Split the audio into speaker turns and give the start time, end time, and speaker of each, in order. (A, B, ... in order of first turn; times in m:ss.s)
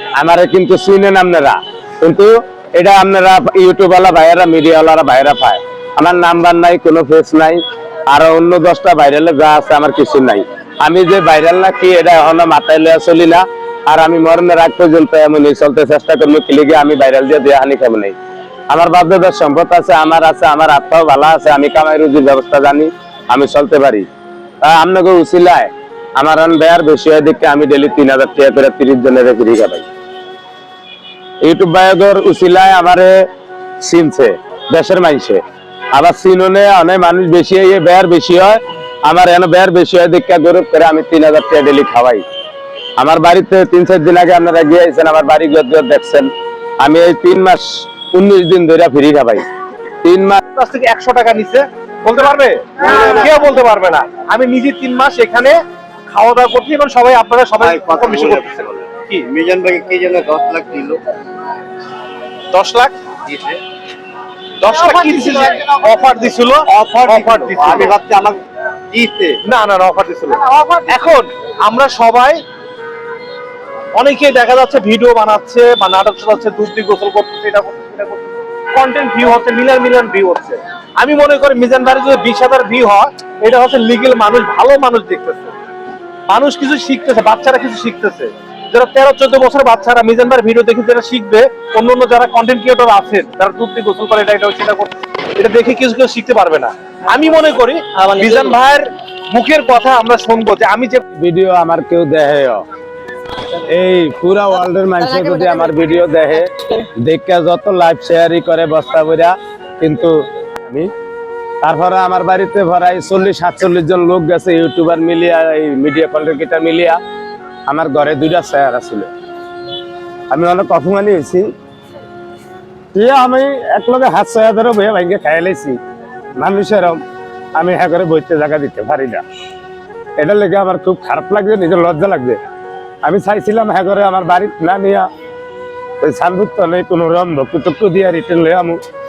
0:00.2-0:18.2 A
0:18.7-0:24.1 A
0:24.6-0:29.9 A
0:31.4-0:33.3 A
0:33.8-0:35.4 A
0:35.9-0:42.2 A
0:43.0-0:49.4 A
0:50.0-0:50.4 A
0:50.5-0:59.3 B
0:57.6-1:01.0 C
1:02.5-1:03.0 B
1:03.3-1:03.6 C
1:04.6-1:08.0 B
1:04.9-1:05.5 C
1:06.7-1:09.4 C
1:09.4-1:12.4 B
1:14.0-1:25.5 B
1:26.3-1:41.0 B
1:41.2-1:42.6 A
1:43.5-1:50.9 A
1:51.6-1:57.0 A
1:57.7-1:59.1 A
2:00.3-2:01.5 A
2:02.9-2:05.8 A
2:06.4-2:07.0 A
2:07.6-2:09.2 A
2:10.2-2:12.4 A
2:13.0-2:15.1 A
2:16.0-2:18.8 A